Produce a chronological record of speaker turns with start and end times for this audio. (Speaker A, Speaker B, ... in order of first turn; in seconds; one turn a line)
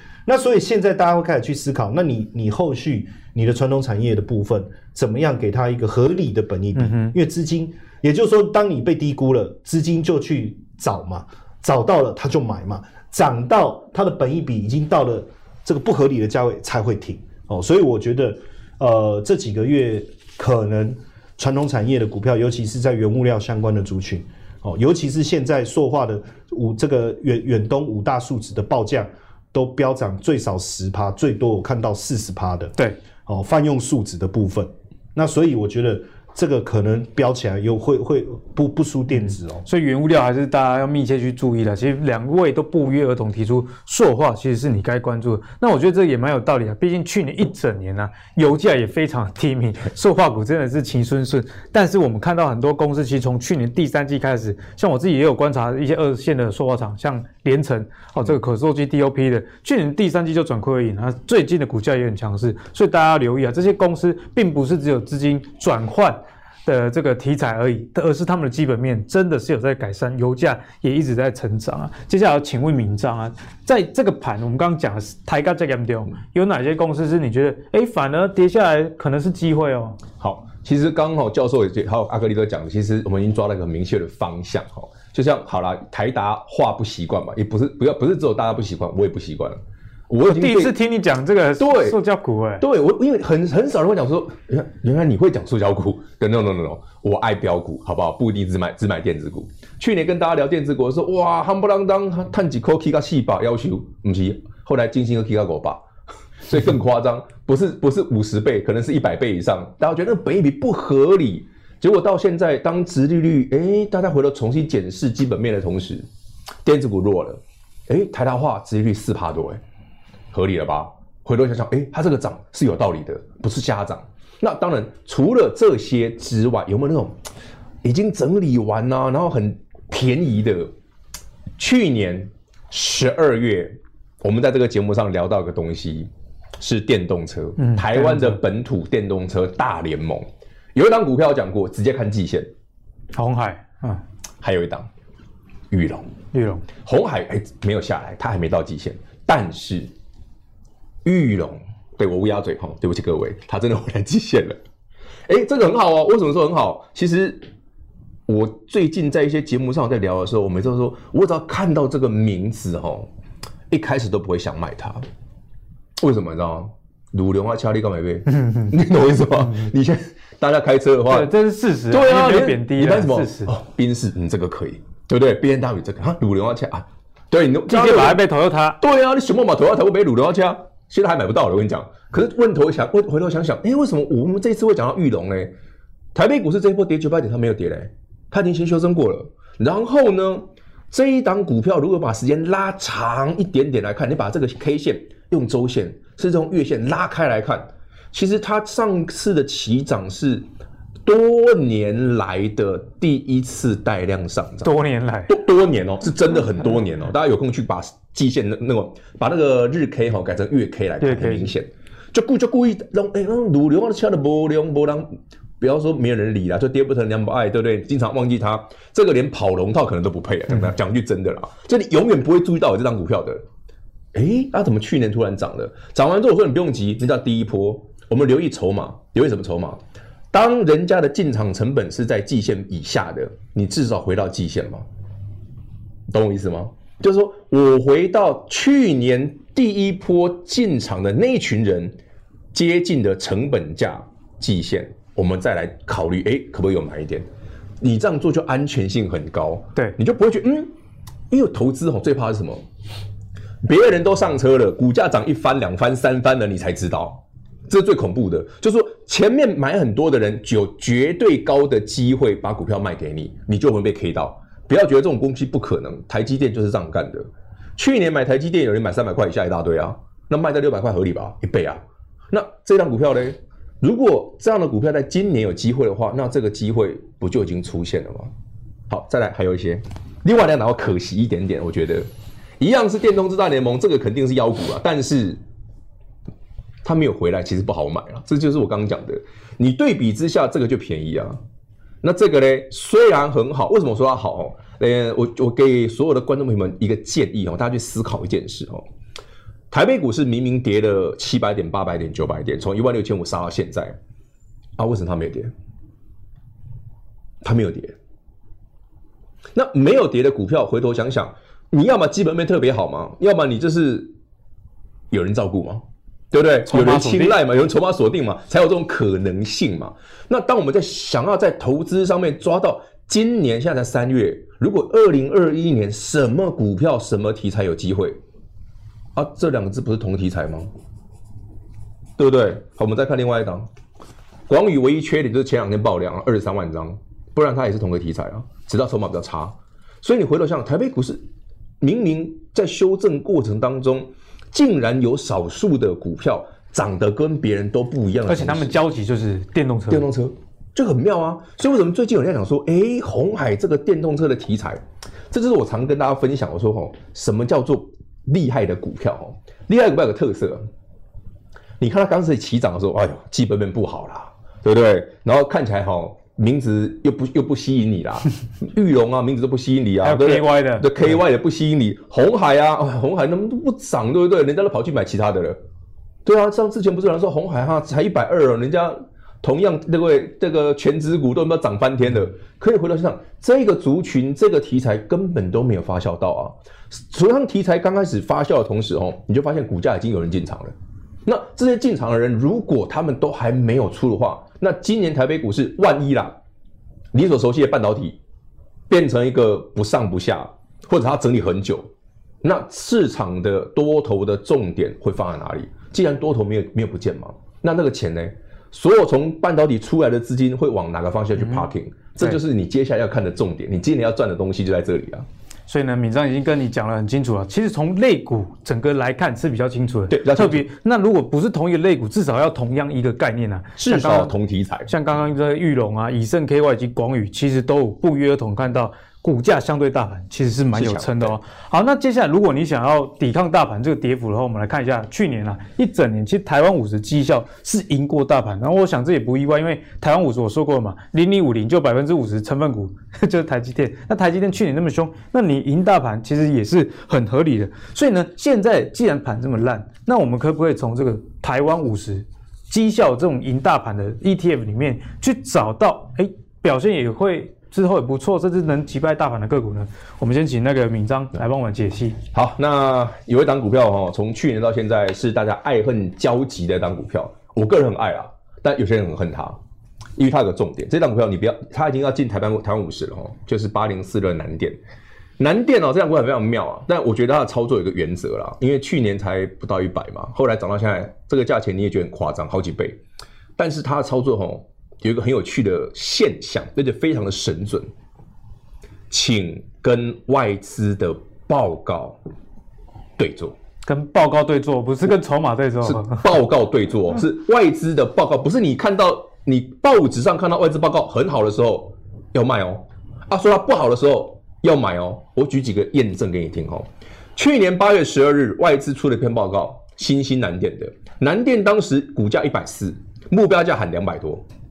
Speaker A: 0.3-39.6
Speaker B: 6.8-7.1
Speaker B: 39.6-80.0
Speaker C: 80.2-90.8
Speaker B: 90.3-92.6
Speaker C: 91.6-92.0
Speaker C: 92.6-105.8
Speaker C: 106.5-116.1
Speaker C: 116.6-119.6
Speaker C: 120.3-127.1
Speaker C: 127.8-130.7
Speaker C: 131.6-142.5
Speaker B: 137.6-138.4
Speaker B: 143.1-144.0
Speaker C: 144.4-144.9
Speaker C: 145.7-146.1
Speaker B: 146.3-146.7
Speaker C: 146.8-149.9
Speaker C: 151.1-154.6
Speaker C: 155.3-157.5
Speaker C: 158.3-163.1
Speaker C: 163.7-165.1
Speaker C: 166.0-171.3
Speaker B: 171.1-173.5
Speaker C: 171.9-178.2
Speaker B: 177.7-178.8
Speaker C: 178.8-185.5
Speaker C: 186.1-200.4
Speaker C: 201.1-204.7
Speaker B: 204.6-205.3
Speaker C: 205.3-223.4
Speaker B: 211.0-211.5
Speaker C: 224.1-229.8
Speaker C: 230.3-234.8
Speaker C: 236.1-241.9
Speaker C: 242.5-247.3
Speaker C: 247.8-250.7
Speaker C: 251.3-252.6
Speaker C: 253.6-278.3
Speaker C: 278.9-282.1
Speaker C: 282.6-285.4
Speaker C: 286.8-291.4
Speaker C: 292.0-298.8
Speaker C: 299.7-303.9
Speaker C: 304.8-305.5
Speaker C: 307.4-308.0
Speaker C: 309.6-314.1
Speaker C: 315.1-328.2
Speaker B: 316.7-317.4
Speaker C: 329.1-330.7
Speaker C: 332.2-333.7
Speaker C: 334.5-341.2
Speaker C: 341.8-348.8
Speaker B: 348.3-350.1
Speaker C: 349.9-360.7
Speaker C: 361.8-375.6
Speaker B: 370.0-370.9
Speaker C: 376.2-390.7
Speaker C: 391.3-396.4
Speaker C: 397.1-398.2
Speaker C: 398.9-401.9
Speaker C: 402.4-415.3
Speaker B: 411.4-411.7
Speaker B: 415.7-424.3
Speaker C: 420.1-420.6
Speaker C: 423.8-424.9
Speaker B: 424.9-462.2
Speaker C: 430.7-431.4
Speaker C: 462.3-469.6
Speaker C: 470.2-474.8
Speaker C: 475.4-483.0
Speaker C: 483.6-487.9
Speaker C: 489.1-492.2
Speaker C: 493.2-493.6
Speaker B: 493.9-496.3
Speaker C: 495.8-514.4